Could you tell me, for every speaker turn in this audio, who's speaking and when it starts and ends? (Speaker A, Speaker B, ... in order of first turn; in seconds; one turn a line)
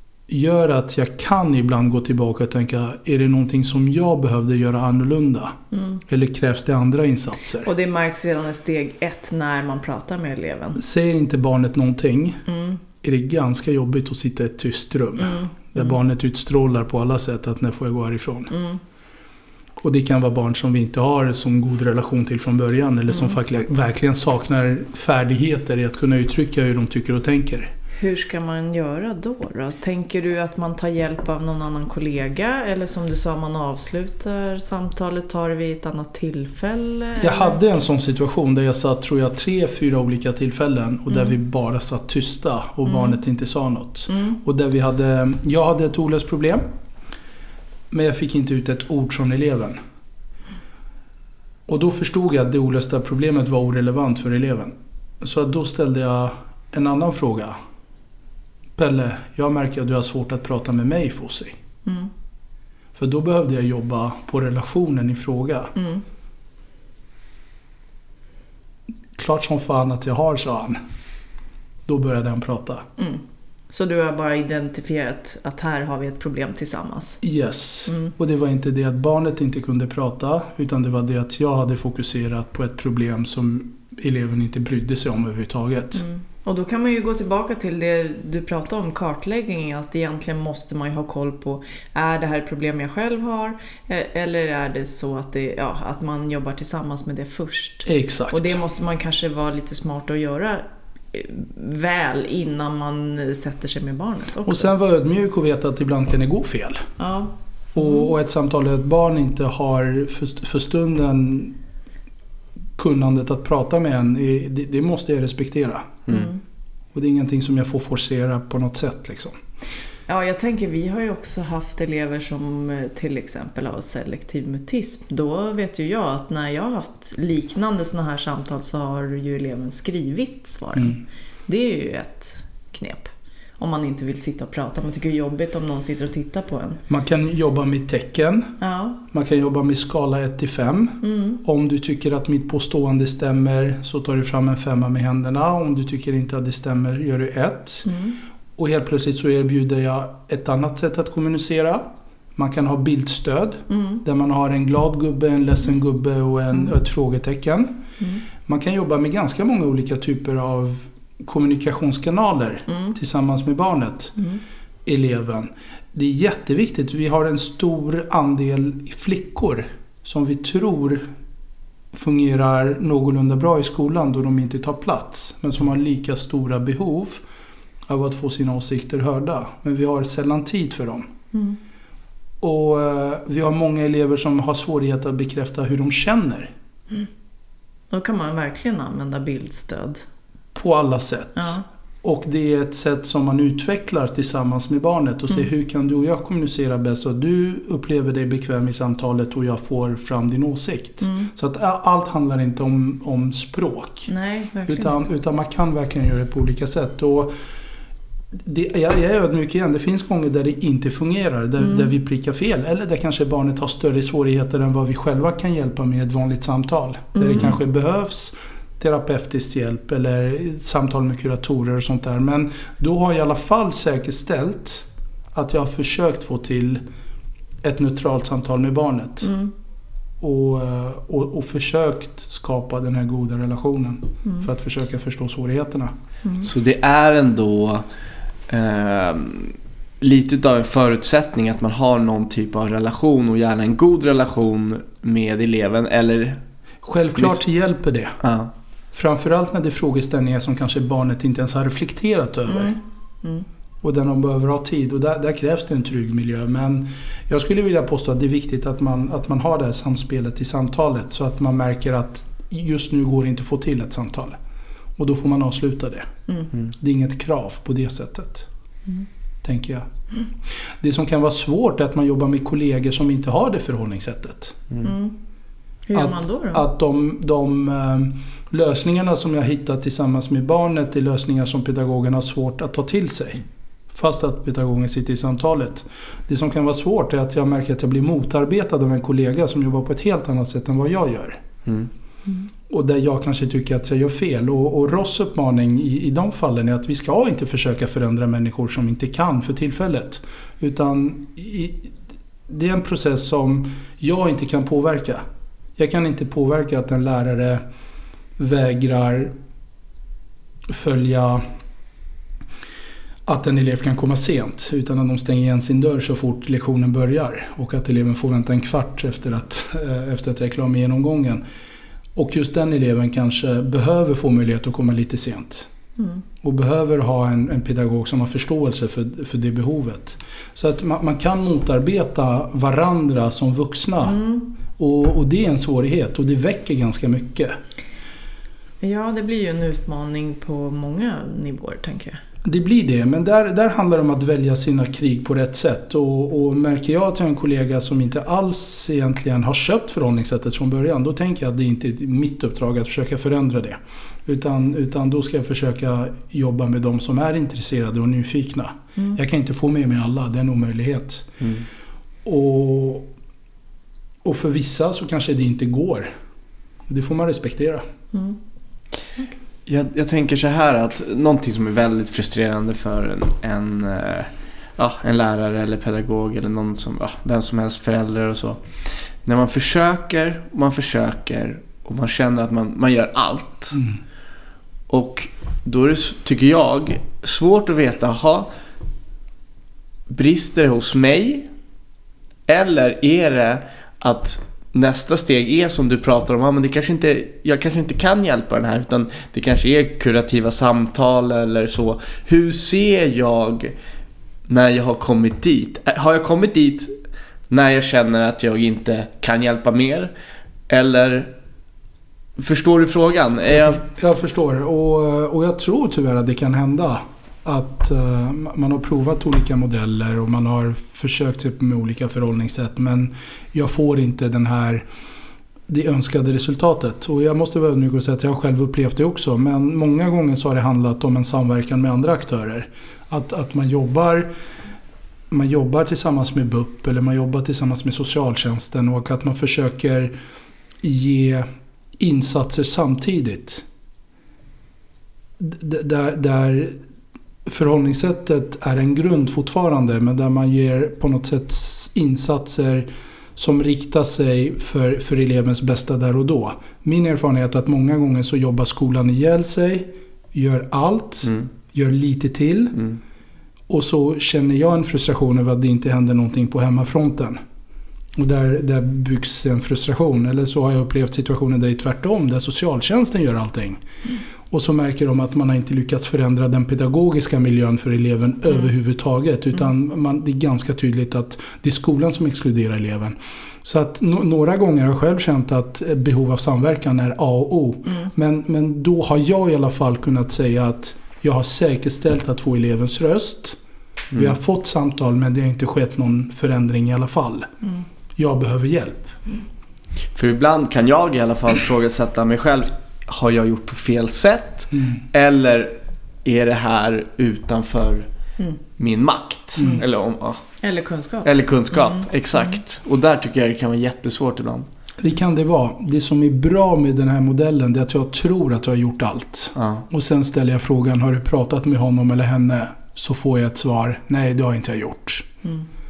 Speaker A: 0.3-5.5
Speaker B: 5.7-6.0
Speaker A: 6.1-7.7
Speaker B: 7.6-10.8
Speaker A: 10.8-12.4
Speaker B: 12.5-12.8
Speaker A: 13.0-18.5
Speaker B: 15.2-15.9
Speaker B: 18.5-18.8
Speaker A: 19.8-27.7
Speaker B: 28.0-37.6
Speaker A: 37.2-46.6
Speaker B: 42.9-43.2
Speaker B: 44.1-44.4
Speaker A: 47.9-49.8
Speaker A: 51.7-57.5
Speaker A: 58.8-61.6
Speaker B: 61.8-62.1
Speaker A: 62.9-65.7
Speaker B: 65.7-66.0
Speaker A: 69.2-70.8
Speaker A: 71.8-72.8
Speaker B: 73.0-77.2
Speaker A: 77.2-86.0
Speaker B: 77.9-78.1
Speaker B: 85.9-104.7
Speaker A: 97.8-98.6
Speaker A: 104.4-106.8
Speaker B: 107.0-108.1
Speaker A: 107.7-111.5
Speaker A: 112.8-116.0
Speaker B: 116.1-116.4
Speaker A: 116.9-119.4
Speaker B: 120.1-136.8
Speaker A: 136.9-138.6
Speaker B: 138.6-139.0
Speaker A: 139.1-147.9
Speaker B: 141.0-141.4
Speaker B: 147.8-148.1
Speaker A: 148.6-157.8
Speaker B: 153.7-154.0
Speaker A: 158.4-164.2
Speaker B: 162.7-162.9
Speaker A: 164.8-171.1
Speaker A: 171.9-177.2
Speaker A: 177.9-181.1
Speaker A: 182.4-186.5
Speaker B: 187.9-190.0
Speaker A: 190.5-204.1
Speaker B: 191.3-191.6
Speaker B: 201.0-201.3
Speaker B: 204.1-204.9
Speaker A: 204.7-207.3
Speaker A: 208.3-226.8
Speaker B: 211.6-211.9
Speaker B: 217.1-217.5
Speaker A: 227.6-229.3
Speaker B: 229.2-229.5
Speaker A: 230.2-235.9
Speaker C: 236.4-237.8
Speaker C: 238.5-246.4
Speaker A: 246.8-248.2
Speaker C: 248.2-248.5
Speaker A: 248.9-252.7
Speaker B: 252.5-253.4
Speaker A: 253.8-264.4
Speaker A: 265.0-266.1
Speaker A: 266.7-268.5
Speaker A: 269.4-269.9
Speaker A: 270.8-274.7
Speaker B: 274.8-275.1
Speaker B: 275.9-276.6
Speaker A: 275.9-291.4
Speaker A: 292.7-301.9
Speaker A: 302.5-305.2
Speaker A: 305.8-307.6
Speaker A: 308.4-309.3
Speaker A: 310.7-311.4
Speaker A: 313.2-321.4
Speaker A: 322.1-325.7
Speaker A: 326.4-334.2
Speaker B: 334.0-334.5
Speaker A: 334.8-337.6
Speaker B: 338.8-342.2
Speaker A: 342.4-361.3
Speaker A: 362.2-363.1
Speaker A: 364.2-366.1
Speaker A: 366.9-367.8
Speaker C: 369.6-383.8
Speaker C: 384.9-388.5
Speaker C: 390.1-391.5
Speaker C: 392.5-403.7
Speaker C: 404.5-406.9
Speaker C: 407.5-410.1
Speaker C: 410.7-411.3
Speaker C: 412.4-413.8
Speaker A: 413.5-424.8
Speaker A: 425.7-434.3
Speaker A: 435.3-440.1
Speaker A: 440.8-441.4
Speaker A: 442.0-443.6
Speaker A: 445.4-446.7
Speaker A: 447.4-462.8
Speaker A: 463.7-467.4
Speaker A: 468.1-473.8
Speaker A: 474.5-493.6
Speaker A: 494.1-497.5
Speaker A: 498.1-499.1
Speaker C: 500.1-508.1
Speaker C: 508.8-510.4
Speaker B: 510.6-512.6
Speaker C: 511.2-514.7
Speaker A: 515.0-525.3
Speaker C: 519.6-519.8